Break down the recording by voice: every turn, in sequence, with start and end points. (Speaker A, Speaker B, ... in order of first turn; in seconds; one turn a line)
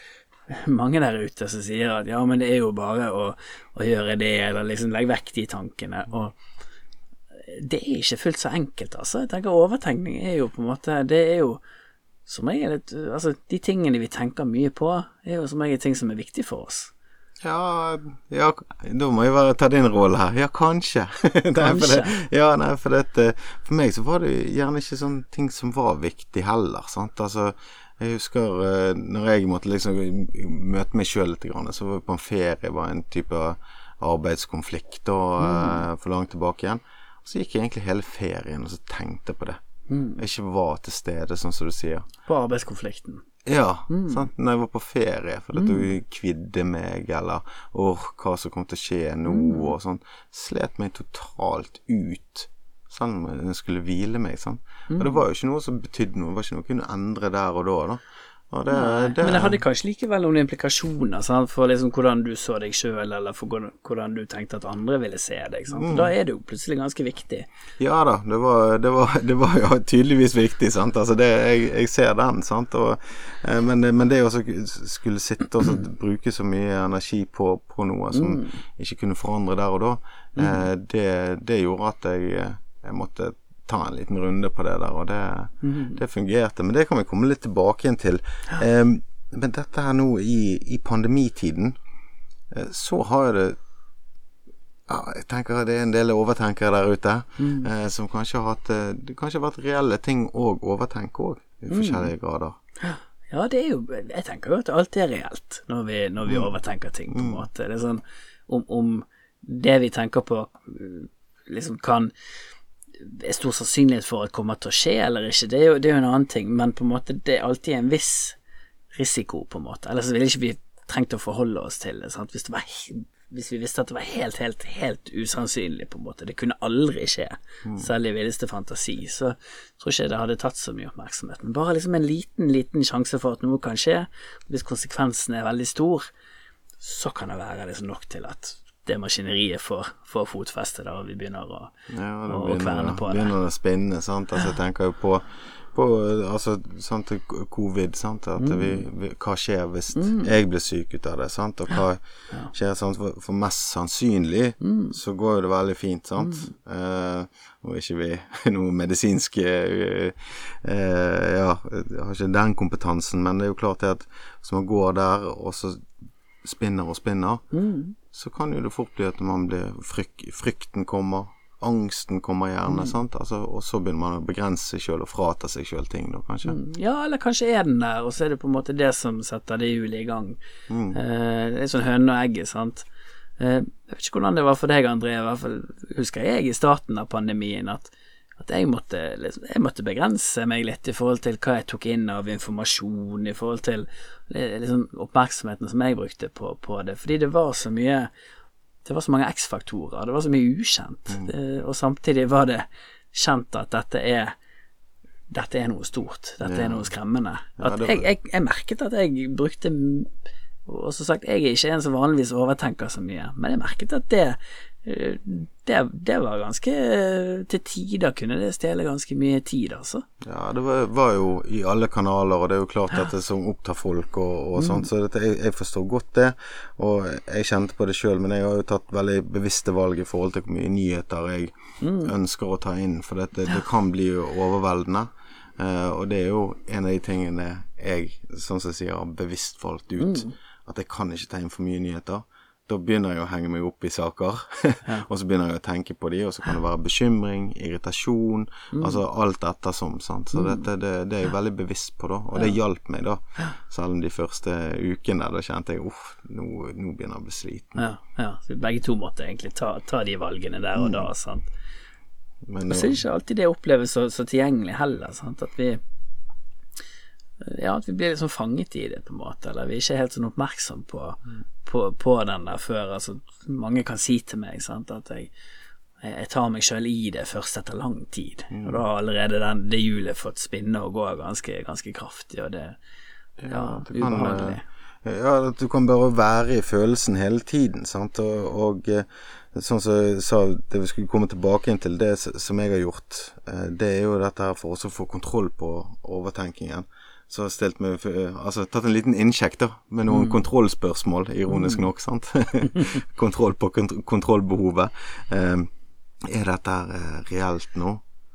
Speaker A: 0.5-6.4
Speaker A: 7.4-11.6
Speaker A: 12.3-16.9
Speaker B: 17.4-39.6
Speaker A: 21.6-22.2
Speaker A: 35.4-35.9
Speaker A: 39.9-40.2
Speaker B: 40.2-42.1
Speaker A: 42.2-43.2
Speaker B: 43.5-59.6
Speaker A: 43.9-44.3
Speaker A: 45.5-45.9
Speaker A: 49.3-49.7
Speaker A: 54.9-55.2
Speaker A: 58.7-67.5
Speaker B: 65.7-66.1
Speaker B: 67.8-91.8
Speaker A: 78.1-78.6
Speaker A: 80.4-80.6
Speaker A: 85.6-86.0
Speaker B: 92.5-93.6
Speaker B: 94.9-102.6
Speaker A: 97.4-97.7
Speaker A: 101.7-102.1
Speaker A: 102.8-112.1
Speaker B: 107.1-107.5
Speaker A: 113.0-118.4
Speaker A: 118.9-136.1
Speaker A: 136.8-141.7
Speaker B: 141.9-165.9
Speaker A: 142.3-143.3
Speaker A: 148.4-148.8
Speaker A: 149.9-150.3
Speaker A: 154.6-155.0
Speaker A: 156.2-156.5
Speaker B: 166.4-167.4
Speaker A: 167.5-168.0
Speaker B: 168.1-176.6
Speaker A: 172.7-172.9
Speaker A: 176.5-180.4
Speaker B: 180.7-181.0
Speaker A: 180.9-182.9
Speaker A: 183.4-198.1
Speaker A: 198.8-204.3
Speaker A: 205.3-210.1
Speaker B: 206.4-206.9
Speaker B: 207.6-208.1
Speaker A: 210.7-220.1
Speaker B: 220.2-257.8
Speaker A: 224.6-224.9
Speaker A: 231.8-232.1
Speaker A: 240.0-240.3
Speaker A: 248.7-249.0
Speaker A: 250.3-250.7
Speaker A: 257.8-261.5
Speaker B: 260.8-261.1
Speaker B: 262.5-263.0
Speaker A: 262.7-265.8
Speaker A: 267.4-275.3
Speaker A: 276.0-282.8
Speaker B: 278.5-278.8
Speaker B: 283.4-305.7
Speaker A: 283.5-284.6
Speaker A: 300.1-300.4
Speaker A: 301.5-301.9
Speaker B: 306.2-308.0